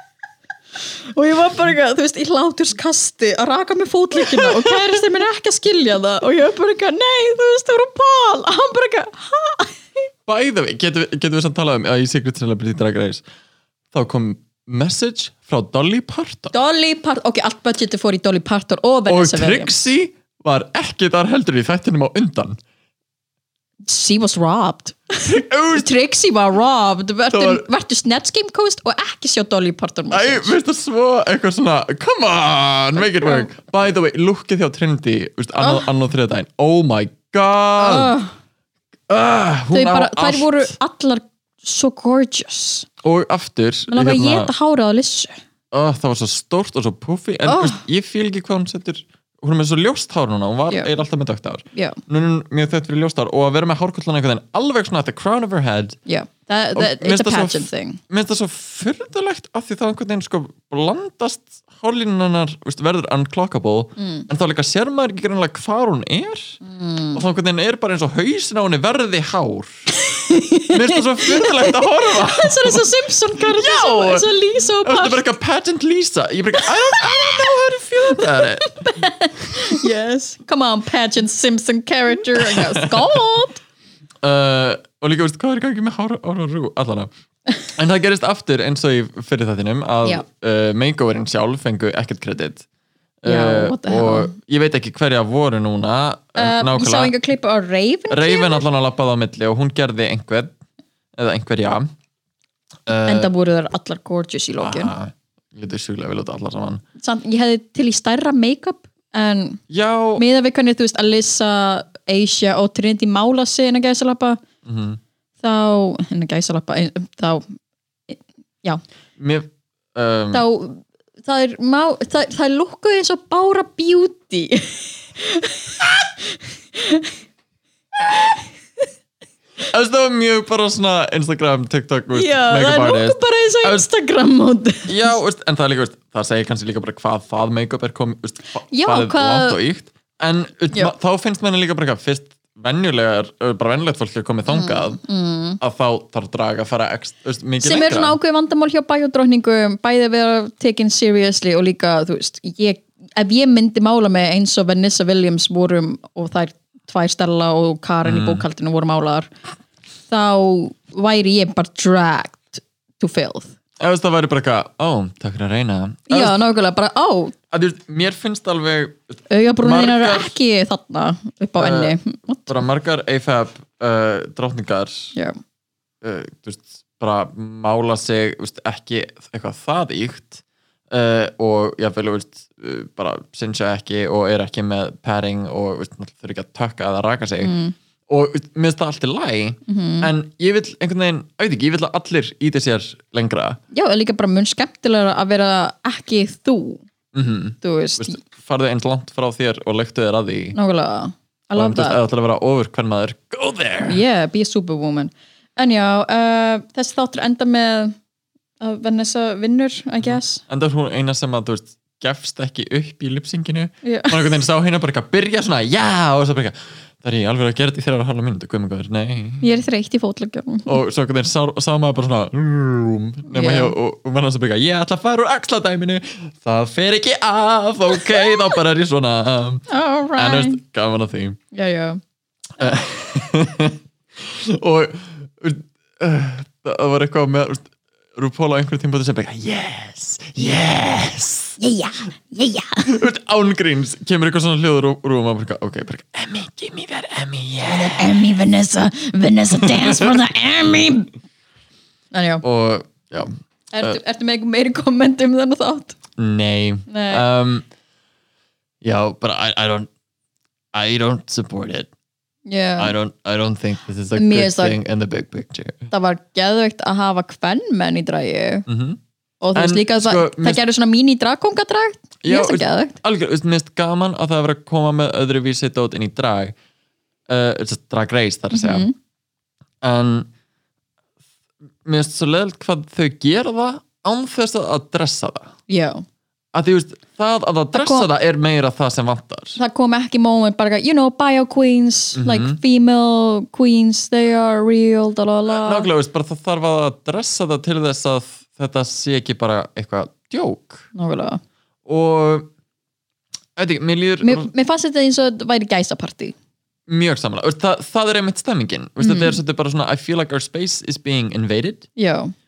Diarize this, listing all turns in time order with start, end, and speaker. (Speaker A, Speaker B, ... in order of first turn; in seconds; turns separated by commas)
Speaker A: 1.1-9.8, Speaker B: 4.2-4.8, Speaker B: 10.3-13.2, Speaker B: 13.9-16.5, Speaker A: 16.5-19.7, Speaker B: 19.1-22.6, Speaker A: 23.9-30.5, Speaker B: 25.2-25.9, Speaker B: 27.3-27.6, Speaker B: 30.1-38.1, Speaker A: 33.0-33.5, Speaker A: 35.6-35.9, Speaker A: 37.8-38.3, Speaker B: 39.1-40.7, Speaker A: 39.7-42.9, Speaker B: 43.0-44.5, Speaker A: 43.9-45.4, Speaker B: 45.7-56.0, Speaker A: 47.5-47.8, Speaker A: 56.1-58.0, Speaker B: 56.8-66.6, Speaker A: 64.0-64.3, Speaker A: 66.6-67.2, Speaker B: 67.2-69.8, Speaker A: 69.9-75.2, Speaker B: 70.7-72.9, Speaker B: 73.4-74.3, Speaker B: 74.8-78.8, Speaker A: 76.6-77.2, Speaker A: 78.1-83.6, Speaker B: 79.6-79.9, Speaker B: 82.4-83.2, Speaker B: 84.2-87.1, Speaker B: 87.8-92.7, Speaker B: 93.2-97.1, Speaker A: 93.2-94.3, Speaker A: 96.4-98.6, Speaker B: 98.1-100.5, Speaker B: 101.2-101.9, Speaker B: 102.9-103.3, Speaker A: 103.0-104.9, Speaker B: 104.6-106.8, Speaker A: 107.0-109.6, Speaker B: 109.7-110.2, Speaker A: 110.2-114.4, Speaker B: 114.7-115.0, Speaker A: 115.4-117.4, Speaker A: 118.1-118.8, Speaker B: 119.2-120.5, Speaker A: 120.3-127.1, Speaker A: 128.0-128.4, Speaker B: 129.7-133.8, Speaker A: 132.1-135.2, Speaker B: 134.9-145.0, Speaker A: 138.7-139.6, Speaker A: 144.5-145.6, Speaker B: 145.6-148.2, Speaker A: 147.6-159.3, Speaker B: 158.0-158.4, Speaker A: 160.1-163.5, Speaker B: 163.8-166.4, Speaker A: 166.1-167.3, Speaker B: 167.5-170.3, Speaker A: 169.3-172.6, Speaker B: 171.6-172.0, Speaker B: 172.5-175.1, Speaker B: 176.0-187.5, Speaker A: 187.4-187.8, Speaker B: 188.1-193.6, Speaker A: 189.7-190.1, Speaker A: 193.7-196.8, Speaker B: 197.1-200.6, Speaker A: 197.6-198.2, Speaker A: 200.5-202.0, Speaker B: 201.6-204.0, Speaker A: 203.8-208.0, Speaker A: 208.6-210.4, Speaker B: 210.0-219.4, Speaker A: 213.8-214.4, Speaker A: 219.4-220.8, Speaker B: 220.7-229.6, Speaker A: 223.3-223.7, Speaker A: 229.7-230.6, Speaker B: 230.2-231.4, Speaker A: 231.5-232.0, Speaker B: 232.6-241.6, Speaker A: 241.6-243.0, Speaker B: 242.8-248.2, Speaker A: 247.7-251.1, Speaker B: 249.6-250.2, Speaker A: 252.1-252.4, Speaker B: 252.4-254.0, Speaker A: 253.7-256.0, Speaker B: 256.2-257.7, Speaker A: 256.9-257.2, Speaker B: 258.8-259.9, Speaker B: 260.7-261.9, Speaker A: 262.5-262.9, Speaker B: 262.8-265.9, Speaker A: 264.1-264.8, Speaker A: 265.9-268.7, Speaker B: 268.7-269.0, Speaker A: 269.4-272.9, Speaker B: 269.5-270.6, Speaker B: 272.2-276.5, Speaker B: 277.3-278.9, Speaker A: 278.5-278.9, Speaker B: 279.8-280.3, Speaker B: 281.9-285.5, Speaker A: 285.7-286.0, Speaker B: 286.5-289.6, Speaker A: 287.7-288.1, Speaker A: 289.6-295.9, Speaker B: 292.1-292.6, Speaker B: 295.5-300.9, Speaker A: 300.9-301.4, Speaker B: 301.9-302.5, Speaker B: 303.6-304.5, Speaker A: 304.2-306.4, Speaker B: 306.9-311.9, Speaker A: 309.0-309.4, Speaker A: 312.0-312.3